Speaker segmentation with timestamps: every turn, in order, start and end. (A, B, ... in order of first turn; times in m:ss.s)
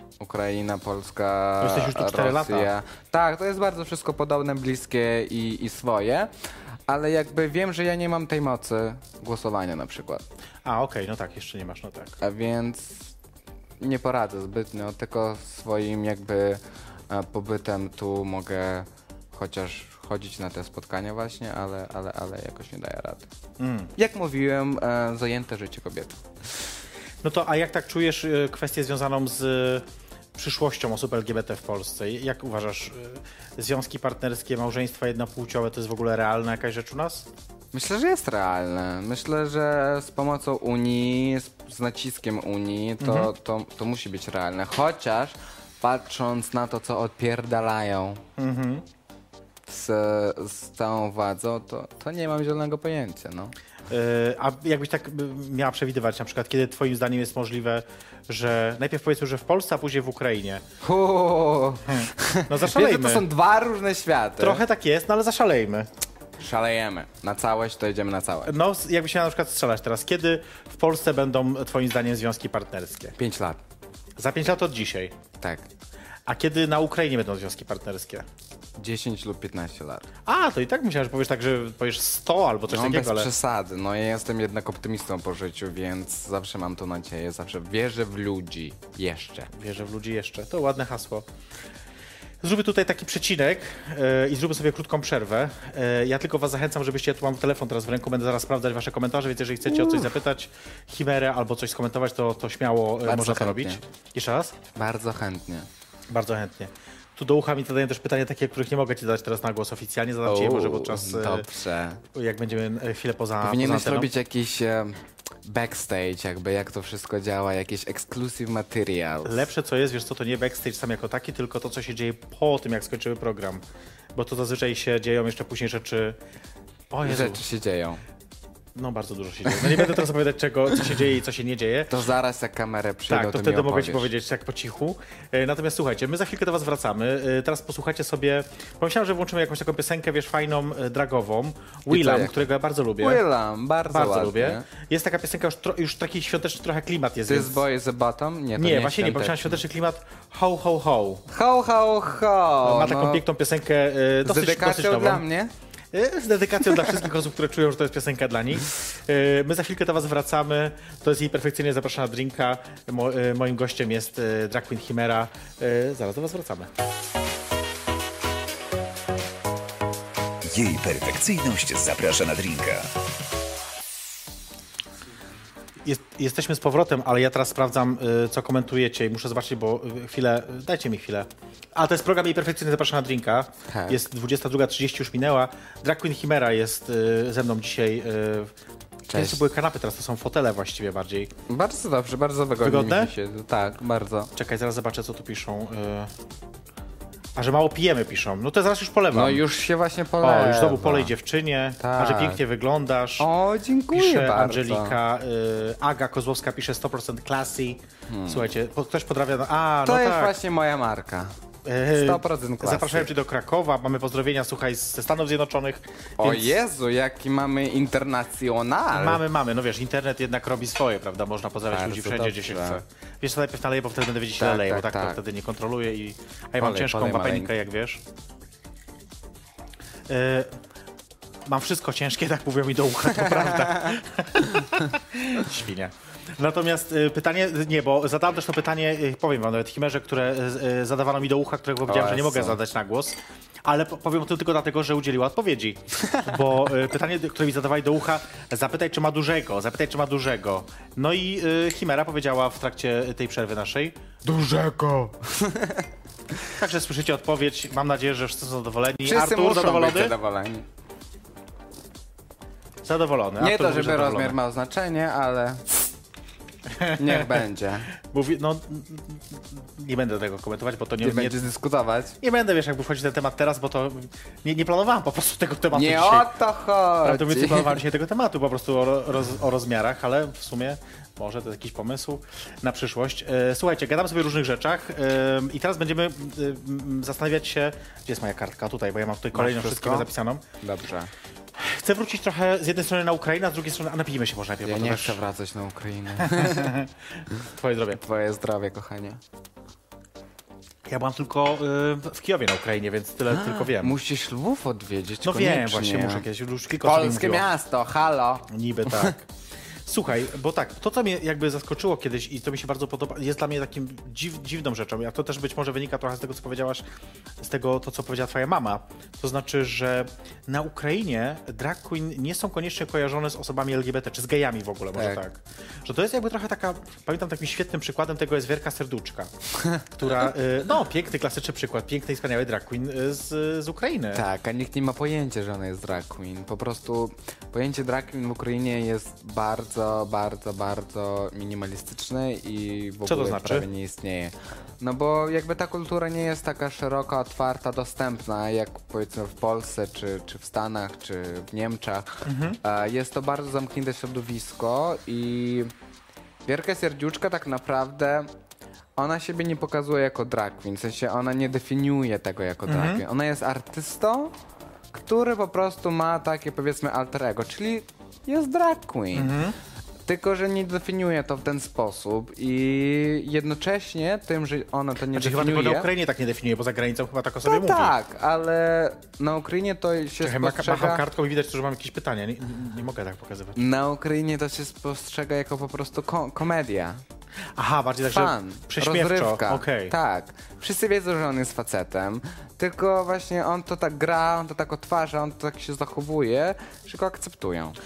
0:00.2-0:06.3 A
0:01.6-0:02.7 B
0:06.9-0:10.2 A
0:10.6-0:12.2 B
0:12.2-0:13.1 A
0:13.8-0:23.3 A
0:23.6-0:23.9 B
0:24.0-0:26.2 A
0:27.2-0:37.3 B
0:37.7-0:48.2 A
0:43.0-0:43.3 B
0:48.4-0:48.8 B
0:49.7-0:53.5 A
0:53.9-1:00.6 B
1:00.8-1:04.6 A
1:01.9-1:03.2 B
1:04.4-1:05.9 B
1:06.4-1:08.5 A
1:08.5-1:13.2 B
1:13.2-1:13.6 A
1:14.2-1:15.2 B
1:15.4-1:15.7 A
1:16.3-1:18.3 B
1:18.8-1:20.0 A
1:20.2-1:23.3 B
1:22.7-1:29.5 A
1:29.5-1:31.3 B
1:32.4-1:44.6 B
1:39.7-1:40.0 A
1:43.0-1:43.8 A
1:44.7-1:45.7 A
1:46.1-1:51.5 B
1:50.2-1:52.0 A
1:52.1-1:54.1 B
1:53.4-1:59.4 A
1:59.2-2:03.6 B
2:04.1-2:06.2 B
2:06.9-2:07.4 B
2:07.0-2:08.0 A
2:08.7-2:11.9 B
2:09.6-2:10.0 A
2:11.9-2:14.1 A
2:13.1-2:23.2 B
2:21.9-2:22.4 A
2:23.0-2:24.7 A
2:23.9-2:27.6 B
2:27.3-2:29.6 A
2:28.6-2:31.2 B
2:31.3-2:33.2 A
2:32.6-2:35.2 B
2:34.2-2:35.5 A
2:35.9-2:46.7 B
2:50.4-2:52.9 C
2:55.8-3:08.5 B
3:03.7-3:04.0 A
3:09.1-3:09.4 A
3:09.1-3:11.3 B
3:11.5-3:14.3 A
3:12.6-3:13.1 B
3:14.3-3:16.1 B
3:17.4-3:19.4 B
3:19.1-3:21.1 A
3:20.2-3:23.3 B
3:21.8-3:22.4 A
3:23.2-3:25.0 A
3:23.9-3:30.3 B
3:28.1-3:28.5 A
3:29.8-3:31.3 A
3:31.6-3:36.6 B
3:31.9-3:33.1 A
3:36.2-3:39.2 A
3:38.9-3:48.0 B
3:41.7-3:42.8 A
3:44.4-3:45.2 A
3:46.6-3:47.5 A
3:50.1-3:50.6 B
3:51.4-4:14.0 B
3:53.7-3:53.9 A
4:01.9-4:02.6 A
4:06.0-4:06.3 A
4:14.2-4:15.9 A
4:16.5-4:20.1 B
4:19.0-4:20.6 A
4:22.8-4:24.4 B
4:23.4-4:25.7 A
4:26.7-4:27.4 B
4:26.8-4:27.9 A
4:28.0-4:31.4 B
4:31.0-4:32.2 A
4:32.2-4:36.3 B
4:35.7-4:37.8 A
4:37.0-4:50.4 B
4:49.3-4:50.1 A
4:50.6-4:51.1 A
4:51.6-4:55.2 B
4:54.6-4:56.8 A
4:56.2-4:56.9 B
4:57.4-4:58.0 B
4:57.9-4:59.2 A
5:00.9-5:04.0 B
5:03.3-5:06.2 A
5:05.2-5:07.5 B
5:06.8-5:09.1 A
5:08.5-5:09.3 B
5:09.8-5:16.8 B
5:17.4-5:29.3 B
5:25.0-5:25.2 A
5:29.9-5:34.2 B
5:34.1-5:55.7 A
5:43.1-5:43.7 B
5:52.2-5:52.6 B
5:56.4-5:58.3 A
5:59.0-6:04.3 A
6:02.7-6:03.0 B
6:04.9-6:09.3 A
6:09.1-6:09.6 B
6:10.0-6:15.9 A
6:15.1-6:17.9 B
6:17.4-6:21.0 A
6:20.2-6:23.6 B
6:23.6-6:27.0 A
6:27.6-6:29.9 B
6:28.0-6:37.8 A